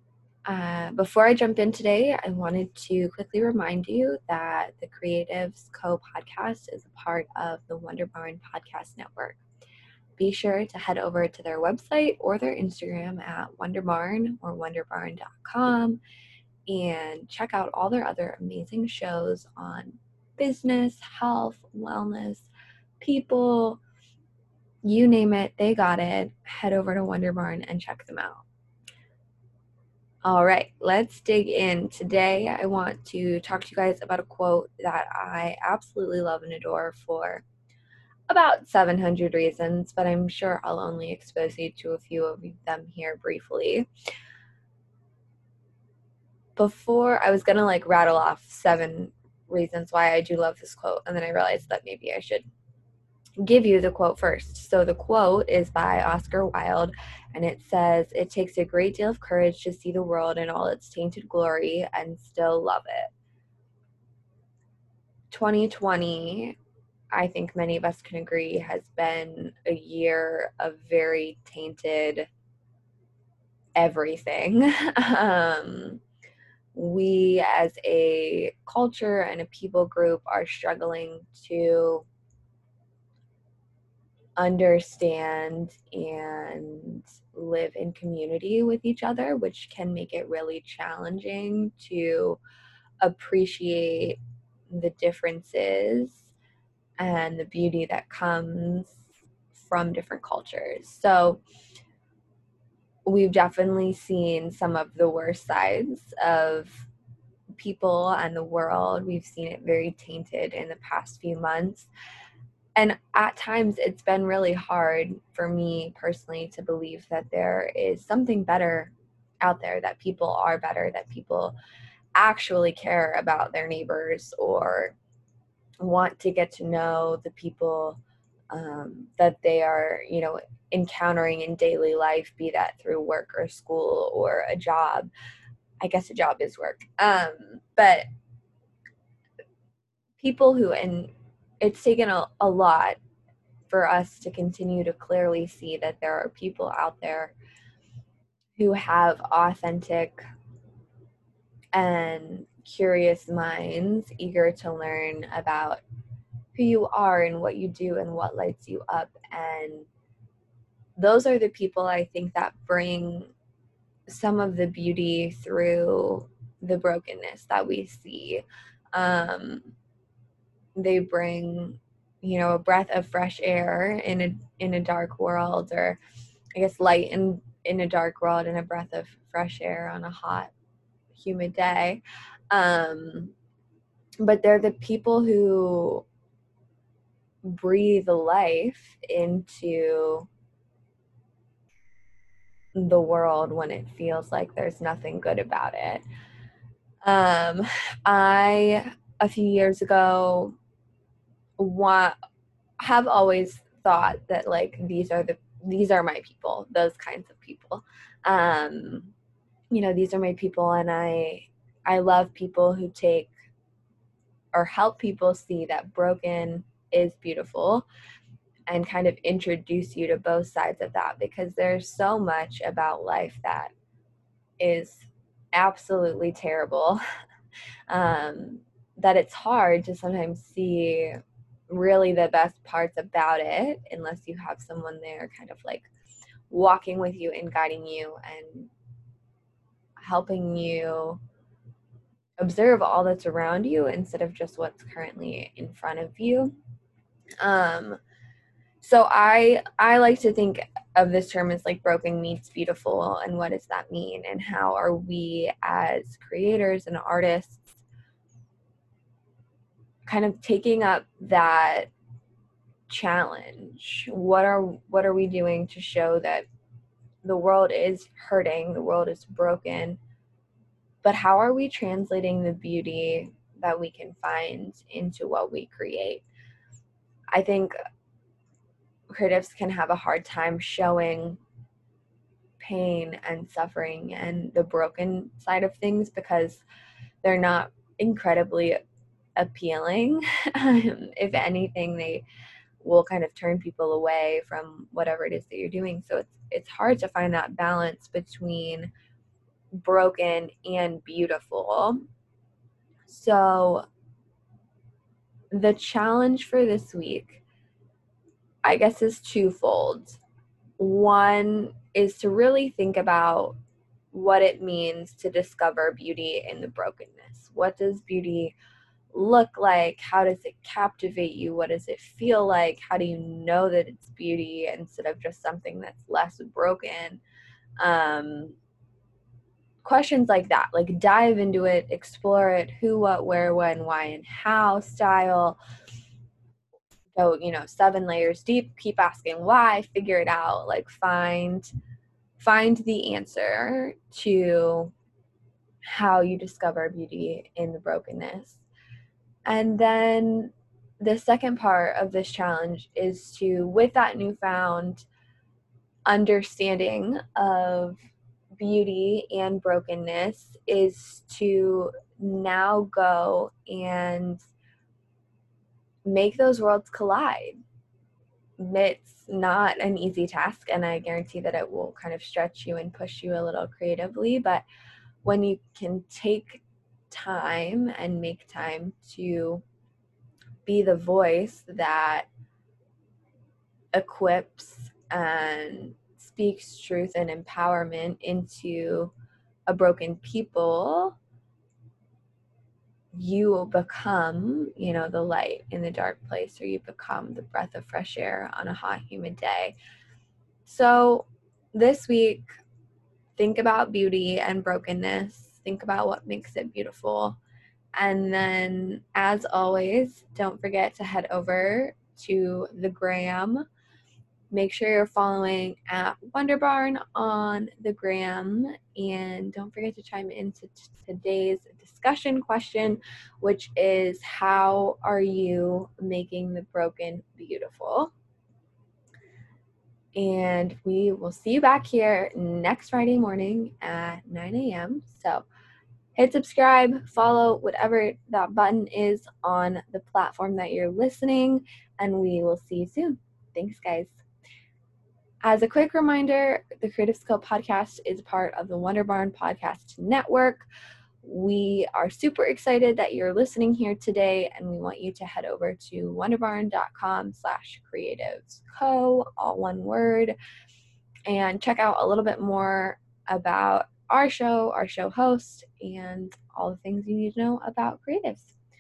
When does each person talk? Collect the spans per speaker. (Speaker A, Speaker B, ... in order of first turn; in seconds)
Speaker A: 0.5-9.4, 10.2-16.0, 16.7-22.5, 23.0-23.8, 24.8-28.5, 30.2-37.5, 38.3-43.9, 46.6-52.5, 53.4-63.1, 65.3-66.6, 67.1-72.3, 73.8-76.0, 76.7-82.1, 84.4-92.4, 93.0-94.2, 94.7-96.3, 97.0-99.0, 99.5-101.4, 103.1-106.9, 107.6-111.9, 112.8-121.6, 122.2-125.0, 125.8-128.0, 128.5-135.1, 135.8-138.1, 140.2-143.0, 143.7-147.3, 148.6-150.2, 151.7-155.8, 156.5-159.9, 161.0-163.3, 164.1-169.7, 170.8-176.0, 176.6-180.5, 181.2-183.3, 184.2-186.1, 187.4-190.3, 192.8-196.0, 197.0-200.6, 201.6-202.2, 202.8-209.1, 209.7-213.3, 214.5-217.9, 218.7-223.7, 224.6-227.0, 227.9-235.9, 236.5-238.7, 240.0-241.2, 242.4-246.6, 247.4-248.0, 248.8-257.8, 260.1-261.9, 262.9-266.5, 267.2-270.0, 271.0-276.3, 277.3-277.8, 279.1-281.4, 282.6-286.6, 287.2-288.8, 289.4-292.3, 292.8-298.9, 299.8-302.0, 303.1-303.9, 305.5-307.4, 308.6-310.2, 310.8-313.6, 314.1-318.6, 319.1-327.2, 327.8-328.6, 329.8-335.6, 337.1-341.7, 342.4-344.9, 345.8-348.7, 349.4-355.1, 356.1-358.0, 358.6-364.4, 366.1-367.6, 368.6-374.6, 375.2-379.6, 380.6-382.3, 383.9-389.1, 389.7-391.2, 393.1-399.8, 400.7-402.5, 403.4-407.4, 408.0-413.6, 414.5-428.1, 430.1-435.5, 436.2-444.2, 445.4-450.7, 451.2-460.4, 461.3-468.6